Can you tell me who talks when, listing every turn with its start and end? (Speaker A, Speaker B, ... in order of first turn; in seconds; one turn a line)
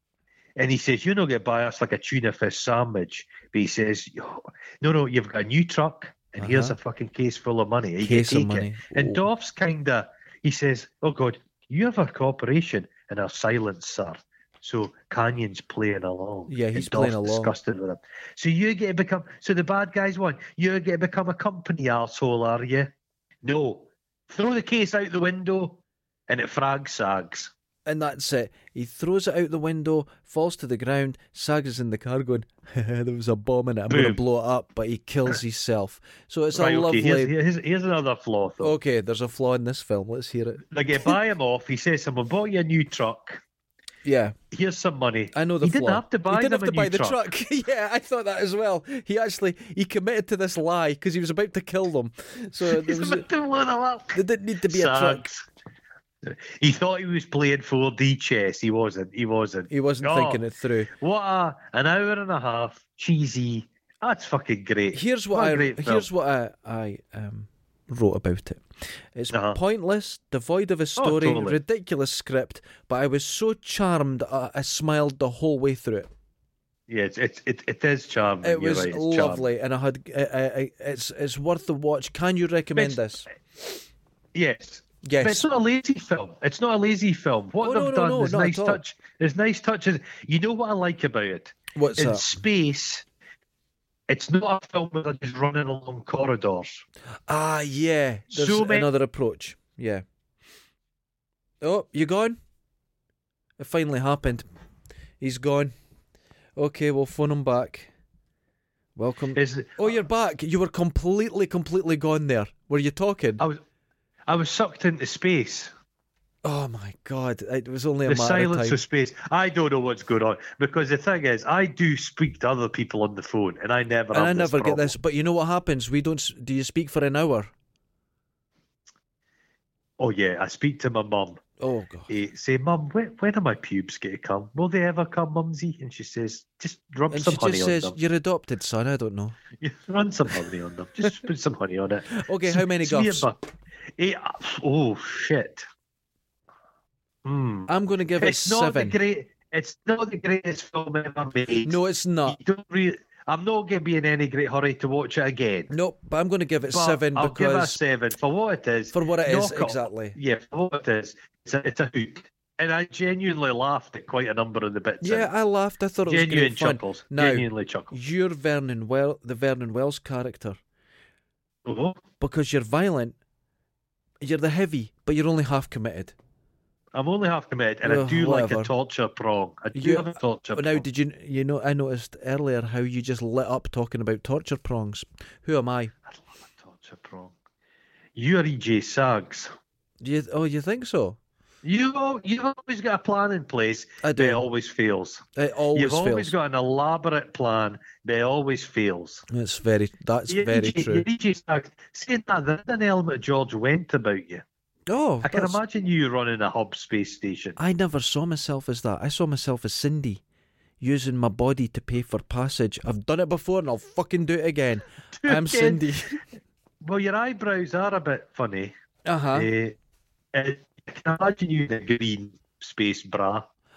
Speaker A: 0.6-22.9
Speaker B: 6.4-6.8
Speaker B: 8.0-9.2
Speaker B: 16.5-17.5
Speaker A: 23.4-27.5
Speaker B: 27.9-37.3
Speaker A: 33.9-34.2
Speaker A: 36.5-38.7
Speaker B: 38.6-41.1
Speaker A: 40.7-43.4
Speaker B: 44.0-44.4
Speaker A: 44.5-47.2
Speaker B: 45.3-53.2
Speaker A: 52.6-55.4
Speaker B: 54.1-55.3
Speaker A: 56.2-66.1
Speaker B: 59.7-60.9
Speaker B: 64.9-76.1
Speaker A: 69.3-69.6
Speaker A: 71.0-71.6
Speaker A: 76.9-79.5
Speaker B: 78.4-83.3
Speaker A: 82.8-83.0
Speaker A: 84.3-93.0
Speaker B: 85.0-85.5
Speaker B: 87.6-88.8
Speaker B: 91.7-92.4
Speaker A: 94.1-96.8
Speaker B: 97.3-100.0
Speaker A: 98.3-98.9
Speaker B: 101.6-102.4
Speaker B: 103.6-104.5
Speaker B: 105.2-105.7
Speaker B: 106.5-107.9
Speaker B: 109.0-113.4
Speaker A: 109.3-109.9
Speaker A: 114.3-115.7
Speaker B: 116.4-118.8
Speaker A: 118.0-124.9
Speaker B: 124.1-127.5
Speaker A: 130.0-131.4
Speaker B: 131.6-132.1
Speaker A: 132.1-137.9
Speaker B: 137.1-139.4
Speaker A: 139.6-143.4
Speaker B: 142.1-143.3
Speaker A: 144.0-145.6
Speaker A: 147.2-155.7
Speaker B: 147.7-149.0
Speaker B: 151.6-152.4
Speaker B: 155.7-157.8
Speaker A: 156.7-165.3
Speaker B: 158.9-160.1
Speaker B: 165.0-170.6
Speaker A: 166.1-167.9
Speaker A: 171.7-172.0
Speaker B: 172.2-173.2
Speaker B: 174.2-176.1
Speaker A: 176.9-180.8
Speaker B: 177.8-178.7
Speaker B: 179.7-185.9
Speaker A: 186.1-187.3
Speaker A: 188.2-189.5
Speaker B: 190.0-191.2
Speaker A: 191.6-199.2
Speaker B: 194.0-194.4
Speaker B: 195.3-196.3
Speaker B: 199.3-201.1
Speaker A: 200.3-204.4
Speaker B: 204.9-205.6
Speaker A: 205.2-207.6
Speaker B: 207.6-210.2
Speaker B: 210.8-216.2
Speaker A: 215.2-215.8
Speaker A: 216.8-218.7
Speaker B: 219.0-219.5
Speaker A: 219.3-219.8
Speaker A: 220.3-223.4